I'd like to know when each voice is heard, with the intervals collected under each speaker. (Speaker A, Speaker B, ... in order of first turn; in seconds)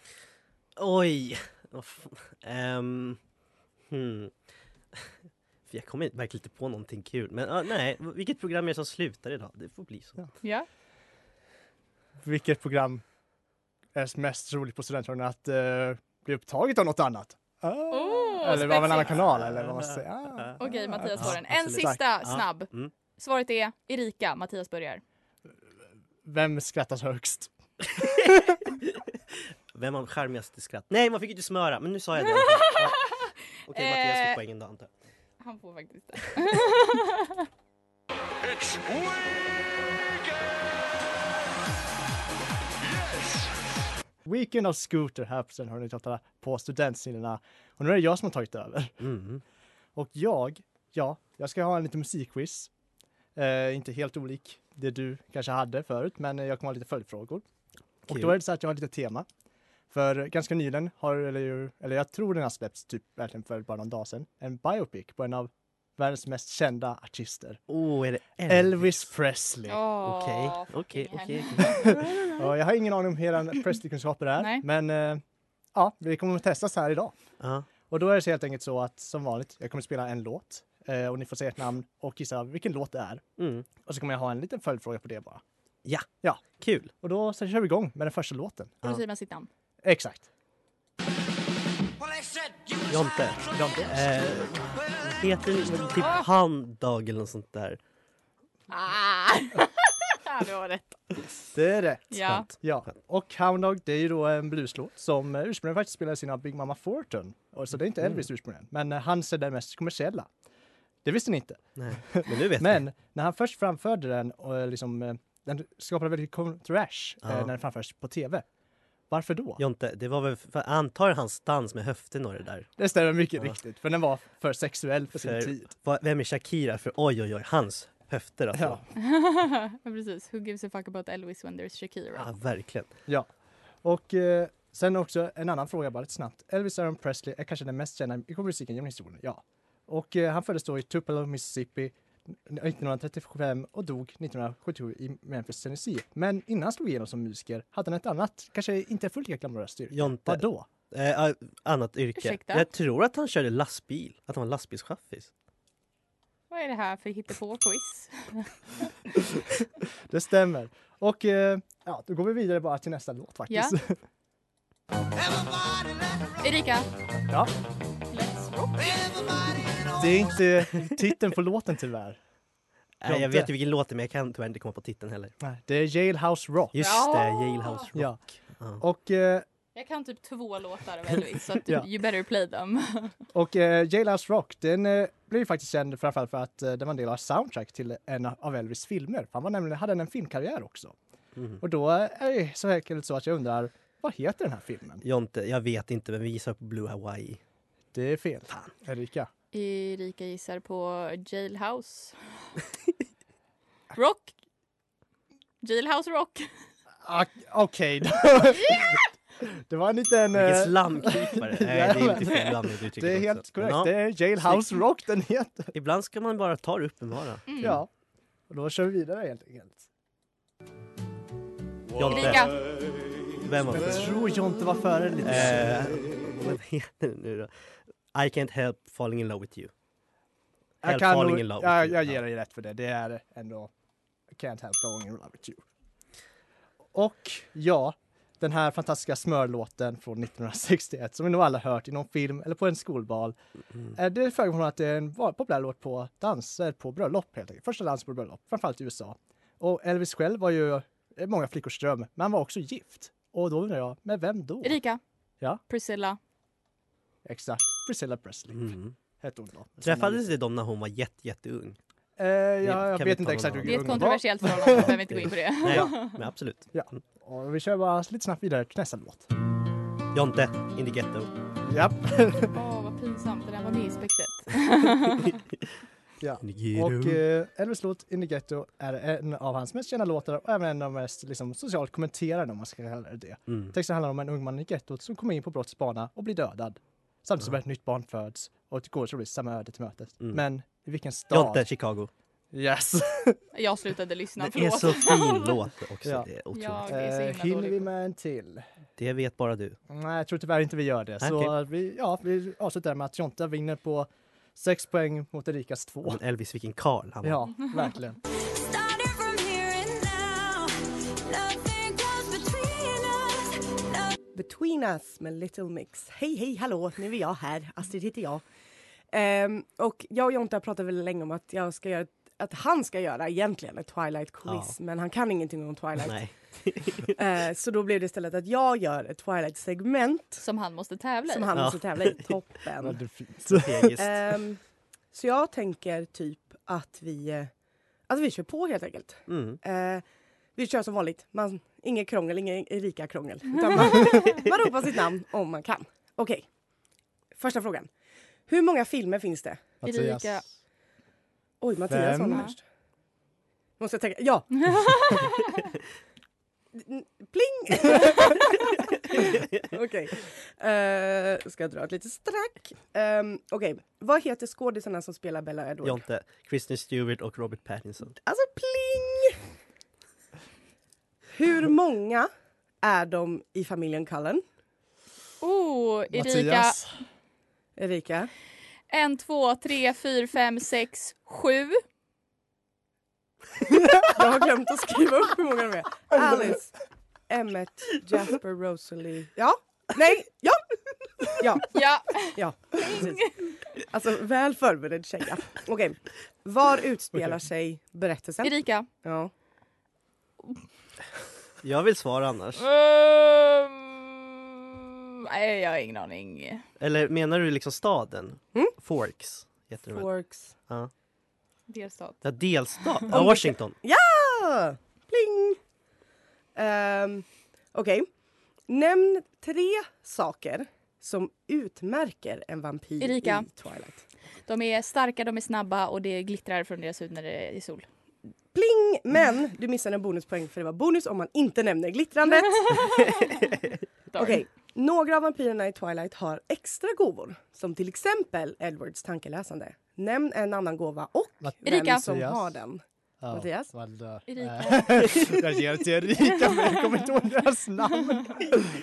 Speaker A: 0.8-3.2, 3.9-4.3, 5.7-10.2, 18.5-20.5, 21.2-22.9, 28.0-33.1, 33.6-34.9, 49.0-49.4, 58.1-58.3, 67.7-69.1, 70.0-72.1, 77.4-77.7, 83.4-83.7, 86.6-86.9, 92.9-97.8, 111.8-112.8, 117.2-117.5, 119.6-122.7, 125.2-128.8, 132.1-132.9, 149.9-155.3, 173.0-175.3, 176.7-178.8, 191.3-191.6, 195.0-197.4, 210.3-214.8, 215.7-217.8, 221.9-222.6, 223.4-224.1, 225.2-227.5, 228.1-229.7, 230.8-232.2, 258.5-258.9, 259.8-261.8, 262.6-264.1, 264.7-266.9, 270.1-271.3, 276.4-277.2, 283.5-283.7, 291.3-292.1, 294.5-296.9, 299.0-299.8, 301.2-301.5, 306.0-307.5, 324.4-324.7, 326.0-327.1, 331.5-332.4, 333.5-334.3, 339.3-339.6, 365.8-368.1, 401.6-402.6, 406.8-410.1, 412.2-413.8
Speaker B: 10.4-10.7, 17.9-19.1, 20.6-25.0, 32.4-34.4, 35.4-37.4, 69.7-72.3, 74.4-74.6, 88.8-89.5, 98.7-101.0, 102.1-102.5, 128.9-132.3, 152.2-152.7, 156.5-158.6, 166.4-166.9, 168.1-169.1, 176.8-177.9, 179.7-183.1, 199.5-202.2, 203.9-204.3, 205.6-206.5, 217.5-217.8, 222.1-222.6, 254.6-255.0, 255.7-256.2, 263.6-266.2, 272.5-275.4, 293.5-295.5, 296.5-297.9, 330.4-331.5, 349.8-350.4, 354.7-355.4, 375.4-376.8, 378.9-381.8, 391.7-393.5, 398.4-398.9, 402.6-404.1, 404.7-406.6, 411.7-412.2, 423.0-423.5, 424.5-427.9, 432.7-433.3, 434.1-434.4, 441.6-442.0, 444.3-445.4, 446.2-446.8
Speaker C: 12.2-13.0, 13.9-22.3, 26.2-28.6, 44.2-49.0, 50.0-52.7, 53.3-57.4, 58.0-59.3, 59.9-67.6, 68.5-69.8, 71.7-75.2, 75.7-77.2, 77.9-83.2, 83.8-85.4, 87.0-88.7, 89.8-90.3, 93.5-94.0, 101.5-110.3, 111.0-118.4, 119.1-119.6, 122.8-125.6, 128.5-128.8, 133.8-150.7, 160.1-164.0, 169.9-172.2, 173.0-173.5, 175.4-176.8, 177.9-178.2, 178.8-179.4, 183.3-190.9, 191.6-195.0, 197.9-199.3, 207.0-215.7, 217.6-217.9, 218.5-219.9, 223.7-226.0, 230.8-233.7, 234.3-235.6, 236.9-243.3, 243.9-254.8, 257.2-260.3, 262.2-265.1, 265.6-266.0, 266.7-269.3, 271.6-272.5, 276.2-291.6, 292.5-293.4, 296.0-296.3, 296.9-298.6, 299.9-306.2, 307.2-308.2, 332.8-333.9, 349.8-350.5, 351.9-352.5, 376.1-377.0, 441.4-442.5, 443.2-448.7
Speaker D: 308.3-314.1
Speaker E: 314.3-318.4, 319.1-326.2, 327.1-330.4, 331.3-333.0, 334.0-337.5, 338.1-346.5, 347.3-347.9, 348.5-349.7, 351.6-352.6, 353.8-355.3, 356.7-366.0, 368.2-369.4, 371.3-372.3, 372.8-374.4, 377.8-378.3, 384.1-390.6, 391.2-399.3, 409.9-410.5, 413.1-415.6, 416.5-418.1, 418.7-424.0, 428.5-433.3, 434.1-443.7